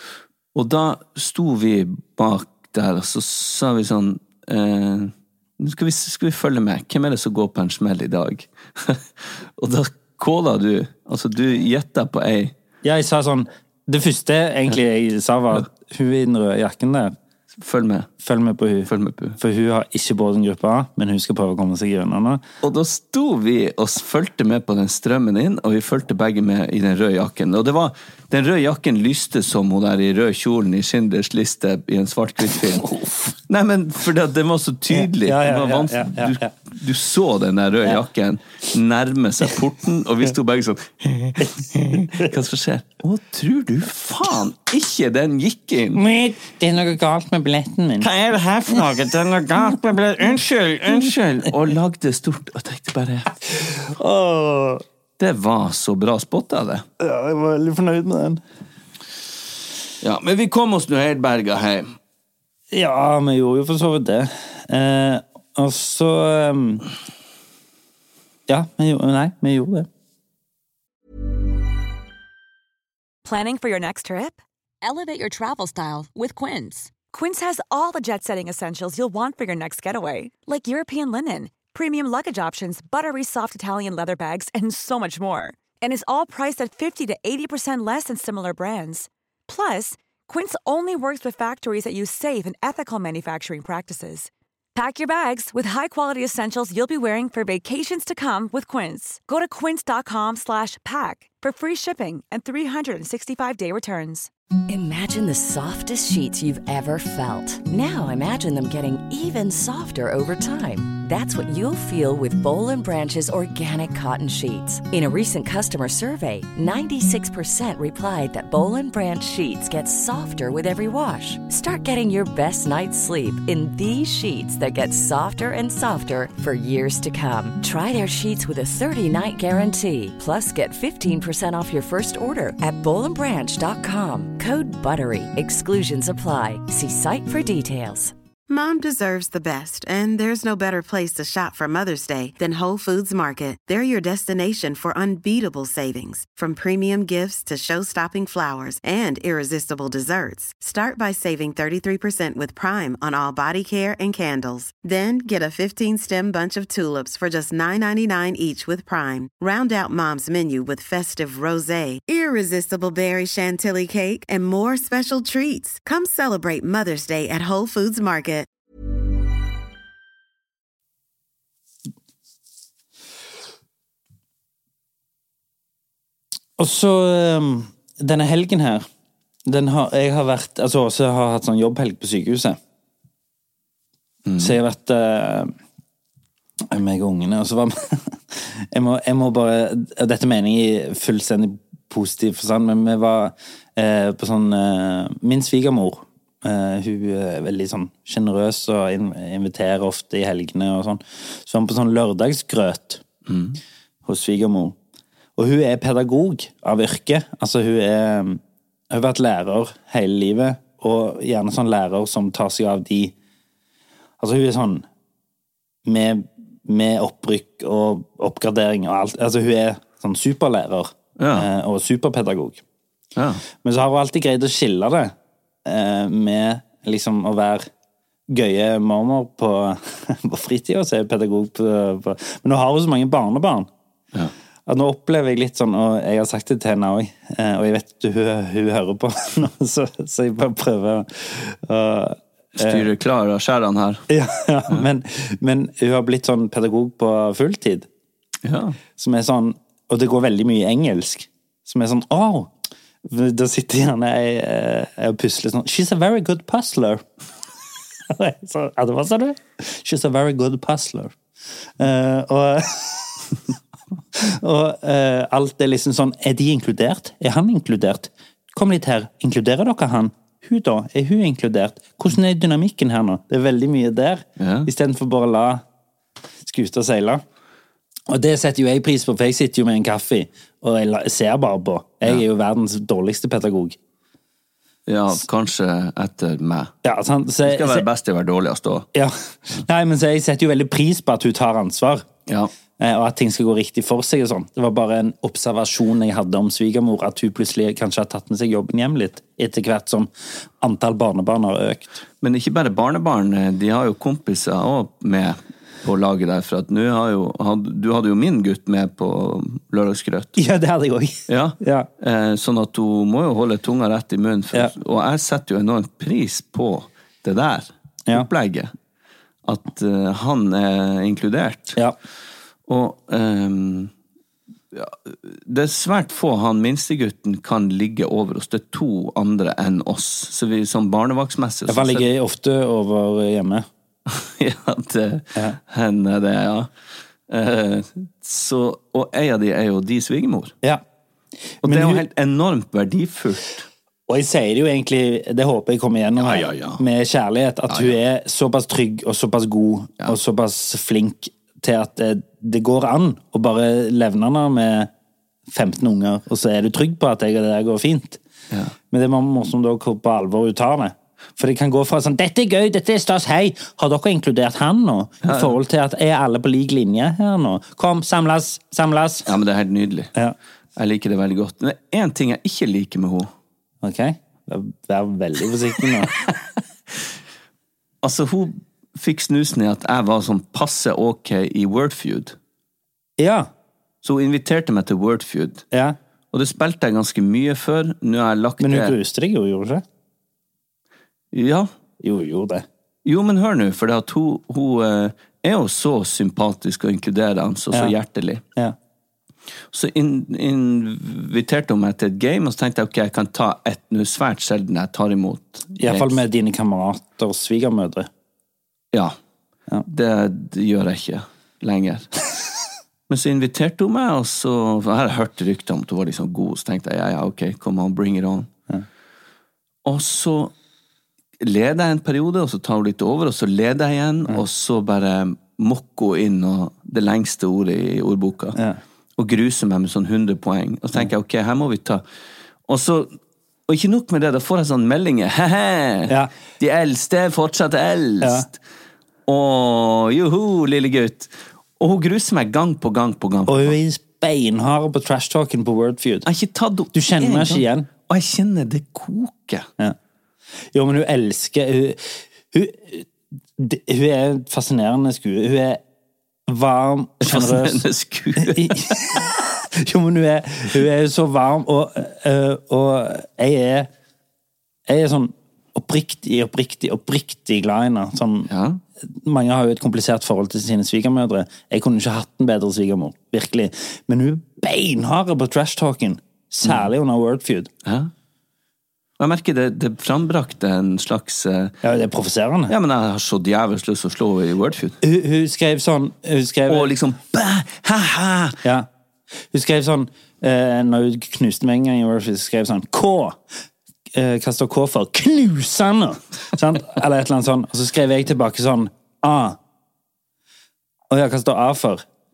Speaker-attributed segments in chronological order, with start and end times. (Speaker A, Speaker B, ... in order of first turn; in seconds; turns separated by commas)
Speaker A: 0.5-12.5, Speaker B: 12.8-17.1, Speaker A: 17.6-18.1, Speaker B: 18.2-22.4, Speaker A: 18.9-19.4, Speaker A: 22.6-46.0, Speaker B: 34.9-36.5, Speaker B: 45.9-48.1, Speaker A: 48.0-53.4, Speaker B: 53.6-54.8, Speaker A: 55.2-56.9, Speaker B: 57.0-58.4, Speaker A: 60.0-61.9, Speaker B: 62.7-66.9, Speaker B: 68.5-69.9, Speaker C: 73.2-104.3, Speaker D: 104.7-138.1, Speaker E: 138.5-168.5, Speaker B: 176.6-178.9, Speaker B: 179.5-182.6, Speaker A: 184.3-184.6, Speaker B: 184.4-185.5, Speaker B: 186.7-203.0, Speaker A: 203.3-203.6, Speaker B: 204.1-204.8, Speaker B: 205.4-213.1, Speaker B: 214.2-214.8, Speaker B: 215.9-222.6, Speaker A: 221.2-221.5, Speaker A: 223.2-223.4, Speaker B: 223.6-225.1, Speaker B: 225.7-227.7, Speaker B: 228.3-233.7, Speaker B: 234.7-242.9, Speaker A: 242.6-244.1, Speaker B: 244.1-247.9, Speaker A: 248.4-248.8, Speaker B: 249.0-252.5, Speaker B: 253.1-257.0, Speaker B: 258.1-261.2, Speaker B: 261.8-263.2, Speaker B: 264.1-275.6, Speaker A: 274.4-274.7, Speaker B: 276.4-277.2, Speaker B: 278.1-283.8, Speaker A: 284.9-286.8, Speaker B: 286.8-287.9, Speaker A: 287.4-288.9, Speaker B: 288.9-292.1, Speaker A: 292.3-292.5, Speaker B: 292.8-302.0, Speaker A: 302.2-310.4, Speaker B: 310.4-311.9, Speaker A: 311.3-318.7, Speaker A: 319.4-321.8, Speaker A: 322.7-323.9, Speaker A: 324.7-332.1, Speaker B: 331.7-333.7, Speaker A: 334.1-336.7, Speaker A: 337.3-340.6, Speaker B: 341.6-342.0, Speaker A: 341.6-343.7, Speaker B: 344.1-354.9, Speaker A: 346.2-346.8, Speaker A: 347.7-348.0, Speaker B: 355.5-358.2, Speaker B: 358.9-369.3, Speaker A: 365.2-365.6, Speaker A: 369.3-370.1, Speaker A: 370.8-373.3, Speaker B: 373.8-376.1, Speaker A: 378.0-382.4, Speaker B: 383.2-383.5, Speaker A: 384.0-385.6, Speaker A: 386.3-389.0, Speaker B: 388.6-389.8, Speaker A: 391.3-391.7, Speaker B: 392.0-392.6, Speaker A: 393.0-398.4, Speaker A: 399.7-406.2, Speaker B: 405.8-408.1, Speaker A: 409.9-412.1, Speaker A: 413.1-418.5, Speaker A: 419.9-420.5, Speaker A: 421.4-428.6, Speaker A: 429.2-432.0, Speaker A: 432.7-433.1, Speaker A: 433.7-438.6, Speaker B: 438.2-438.5, Speaker A: 439.3-443.8, Speaker B: 443.5-446.3, Speaker A: 446.3-449.7, Speaker B: 446.9-447.9, Speaker B: 450.7-455.8, Speaker B: 456.5-457.8, Speaker A: 457.2-459.3, Speaker B: 458.4-463.9, Speaker B: 464.9-468.5, Speaker A: 468.5-468.8, Speaker B: 469.0-477.7, Speaker A: 477.8-478.1, Speaker A: 479.2-481.8, Speaker B: 481.8-482.7, Speaker A: 482.7-485.0, Speaker B: 485.0-486.9, Speaker A: 486.7-488.6, Speaker B: 489.5-493.4, Speaker B: 494.1-499.6, Speaker B: 501.1-502.0